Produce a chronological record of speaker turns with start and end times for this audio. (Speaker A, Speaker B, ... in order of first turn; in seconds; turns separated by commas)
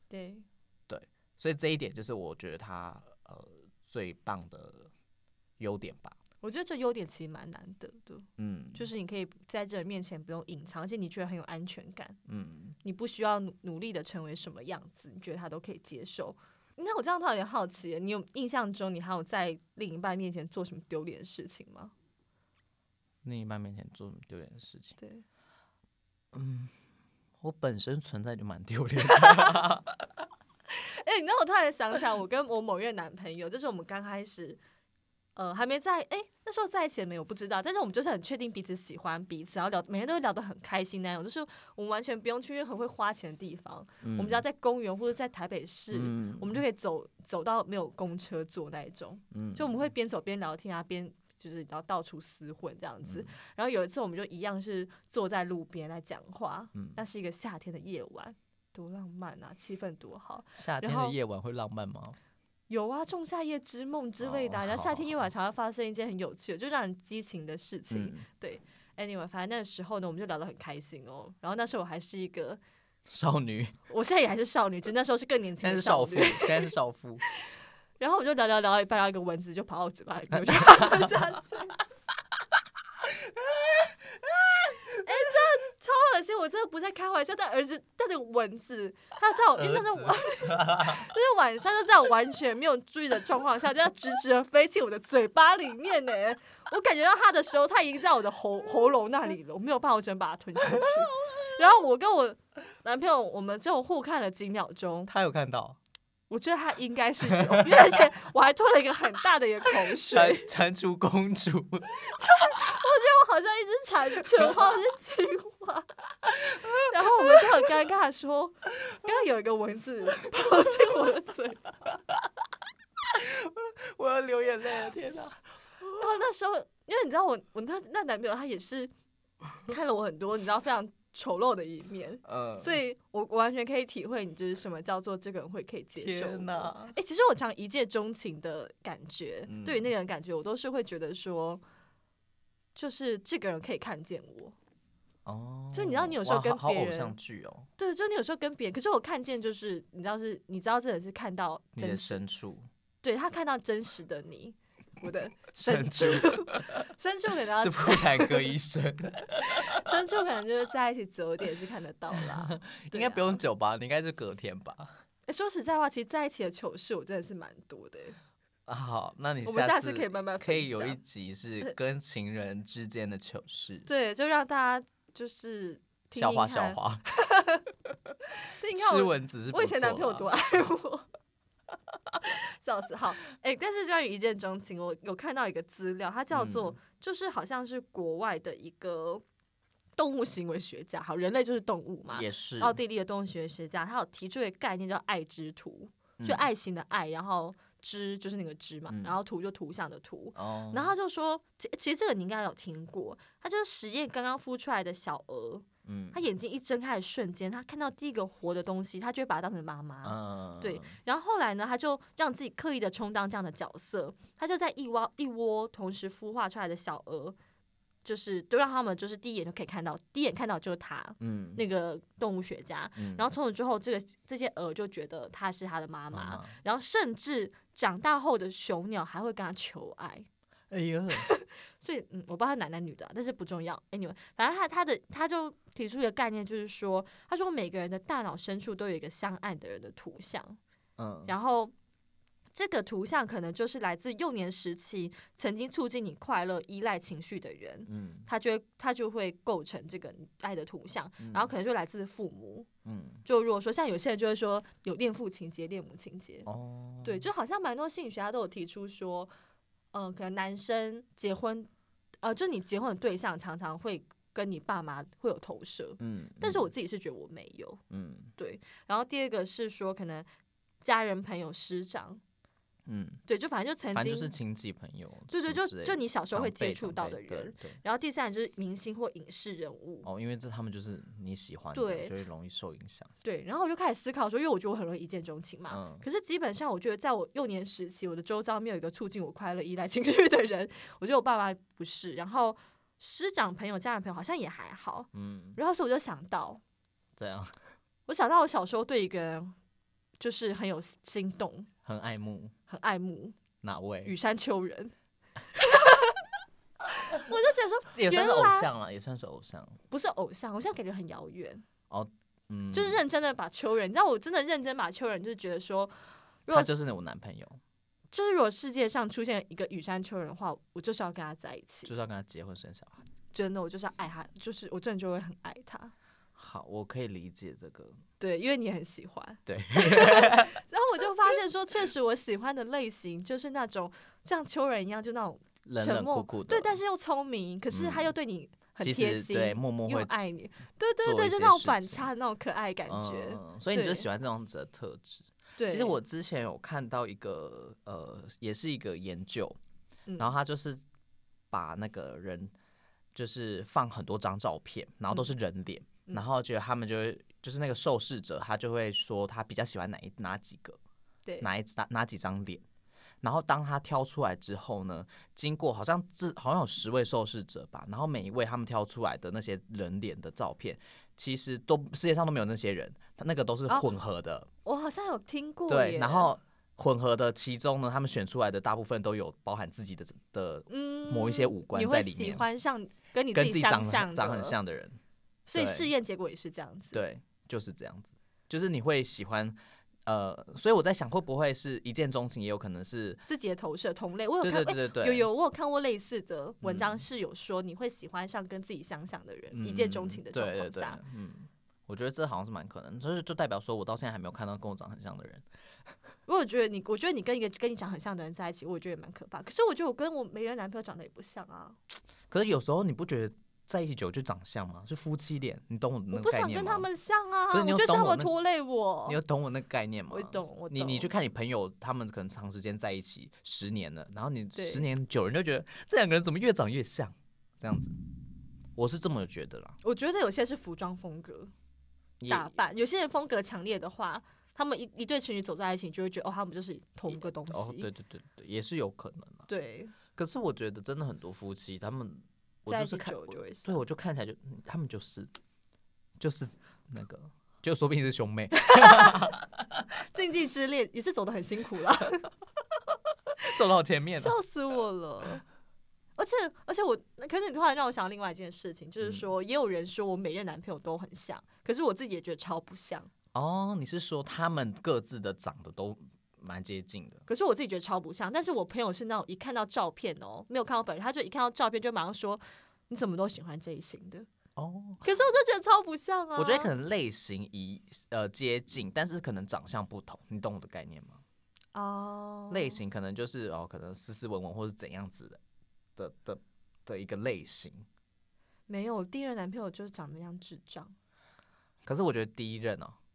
Speaker A: 0.1-0.5, Speaker B: 0.9-4.9, Speaker B: 5.6-6.2, Speaker A: 6.4-12.2, Speaker B: 8.4-8.9, Speaker B: 12.3-12.8, Speaker A: 12.8-21.9, Speaker B: 23.2-25.0, Speaker A: 25.0-25.2, Speaker B: 26.3-26.7, Speaker B: 27.4-30.0, Speaker A: 29.2-29.6, Speaker A: 30.7-34.6, Speaker A: 35.4-61.2, Speaker B: 44.0-44.4, Speaker B: 45.9-46.6, Speaker B: 49.3-49.8, Speaker B: 53.0-53.3, Speaker B: 56.8-57.0, Speaker B: 60.6-62.2, Speaker A: 62.7-72.6, Speaker B: 64.2-65.3, Speaker B: 67.9-68.3, Speaker B: 73.1-73.8, Speaker A: 73.9-76.7, Speaker B: 75.6-77.2, Speaker A: 78.0-81.8, Speaker B: 80.3-81.2, Speaker A: 84.9-105.1, Speaker B: 89.5-91.1, Speaker B: 105.1-105.8, Speaker A: 106.3-110.5, Speaker B: 107.4-107.7, Speaker B: 110.0-112.8, Speaker A: 112.2-115.9, Speaker B: 116.5-117.3, Speaker A: 116.8-121.8, Speaker B: 123.1-125.4, Speaker A: 125.9-128.9, Speaker A: 129.6-141.6, Speaker B: 132.2-132.8, Speaker B: 136.0-137.0, Speaker B: 139.5-139.9, Speaker A: 142.8-144.6, Speaker B: 145.2-147.7, Speaker A: 145.7-147.2, Speaker A: 147.8-152.2, Speaker B: 151.8-152.7, Speaker A: 153.0-158.5, Speaker B: 155.5-156.9, Speaker B: 157.6-159.9, Speaker A: 159.7-163.4, Speaker B: 162.3-165.0, Speaker A: 165.3-168.2, Speaker B: 168.7-173.9, Speaker A: 169.4-171.0, Speaker A: 173.9-177.7, Speaker B: 176.2-177.1, Speaker A: 178.6-181.1, Speaker B: 178.7-180.4, Speaker A: 182.2-189.2, Speaker B: 186.3-186.8, Speaker A: 190.0-217.4, Speaker B: 192.1-192.8, Speaker B: 196.2-196.5, Speaker B: 198.9-199.2, Speaker B: 200.3-200.9, Speaker B: 205.8-206.2, Speaker B: 210.0-211.0, Speaker A: 218.0-230.3, Speaker B: 221.2-221.6, Speaker B: 223.0-223.3, Speaker B: 226.1-226.6, Speaker B: 230.7-231.3, Speaker A: 231.2-240.6, Speaker B: 241.0-241.3, Speaker A: 241.3-241.7, Speaker A: 242.5-252.7, Speaker B: 247.9-248.3, Speaker B: 251.2-251.5, Speaker B: 252.8-253.2, Speaker A: 253.2-256.5, Speaker B: 256.5-257.3, Speaker A: 257.0-259.3, Speaker A: 259.9-261.7, Speaker A: 262.2-267.8, Speaker B: 266.0-266.7, Speaker B: 267.9-268.3, Speaker A: 268.4-270.3, Speaker A: 270.8-272.2, Speaker B: 272.9-273.2, Speaker A: 273.3-274.3, Speaker B: 273.9-277.8, Speaker A: 275.3-280.1, Speaker B: 280.0-283.1, Speaker A: 281.7-282.1, Speaker A: 283.2-296.6, Speaker B: 285.7-286.0, Speaker B: 295.1-295.6, Speaker B: 297.2-297.6, Speaker A: 298.1-299.6, Speaker A: 300.2-301.7, Speaker B: 301.9-302.5, Speaker A: 302.7-303.4, Speaker B: 303.6-304.1, Speaker A: 304.0-304.9, Speaker A: 305.5-306.2, Speaker A: 307.2-308.7, Speaker B: 307.9-309.8, Speaker A: 309.9-311.6, Speaker B: 311.9-313.0, Speaker A: 312.7-315.9, Speaker B: 316.5-317.6, Speaker A: 318.1-321.9, Speaker B: 321.9-323.1, Speaker A: 323.3-325.9, Speaker B: 326.4-328.0, Speaker A: 328.2-344.1, Speaker B: 329.5-330.6, Speaker B: 335.6-336.8, Speaker B: 337.7-338.1, Speaker B: 338.8-340.1, Speaker B: 341.0-342.1, Speaker B: 342.9-349.6, Speaker A: 345.6-346.0, Speaker A: 350.1-350.3, Speaker B: 350.2-350.8, Speaker B: 351.5-352.5, Speaker B: 353.1-360.8, Speaker B: 361.4-362.6, Speaker B: 363.2-374.5, Speaker A: 374.6-376.3, Speaker B: 375.7-382.5, Speaker A: 380.7-384.6, Speaker B: 383.3-385.0, Speaker A: 385.5-387.0, Speaker B: 385.5-385.9, Speaker B: 386.9-393.2, Speaker A: 393.3-401.0, Speaker B: 394.4-395.3, Speaker B: 396.6-397.1, Speaker B: 399.5-405.4, Speaker A: 406.3-411.8, Speaker B: 412.3-416.9, Speaker A: 416.1-419.2, Speaker B: 417.5-418.4, Speaker B: 419.1-427.9, Speaker A: 420.1-421.1, Speaker A: 424.6-424.9, Speaker B: 428.8-429.8, Speaker A: 429.8-431.5, Speaker B: 432.2-432.5, Speaker A: 432.3-437.9, Speaker B: 437.1-439.5, Speaker A: 439.5-440.0, Speaker B: 440.2-445.3, Speaker A: 442.7-443.8, Speaker B: 446.2-449.9, Speaker A: 448.7-449.3, Speaker A: 449.9-452.2, Speaker B: 453.4-454.4, Speaker A: 454.2-455.4, Speaker A: 456.2-463.1, Speaker B: 463.3-467.2, Speaker A: 467.3-474.3, Speaker B: 474.6-475.2, Speaker A: 475.0-476.7, Speaker B: 476.4-481.2, Speaker A: 481.7-482.8, Speaker B: 482.5-485.4, Speaker B: 486.0-487.9, Speaker A: 488.7-490.9, Speaker B: 491.9-493.0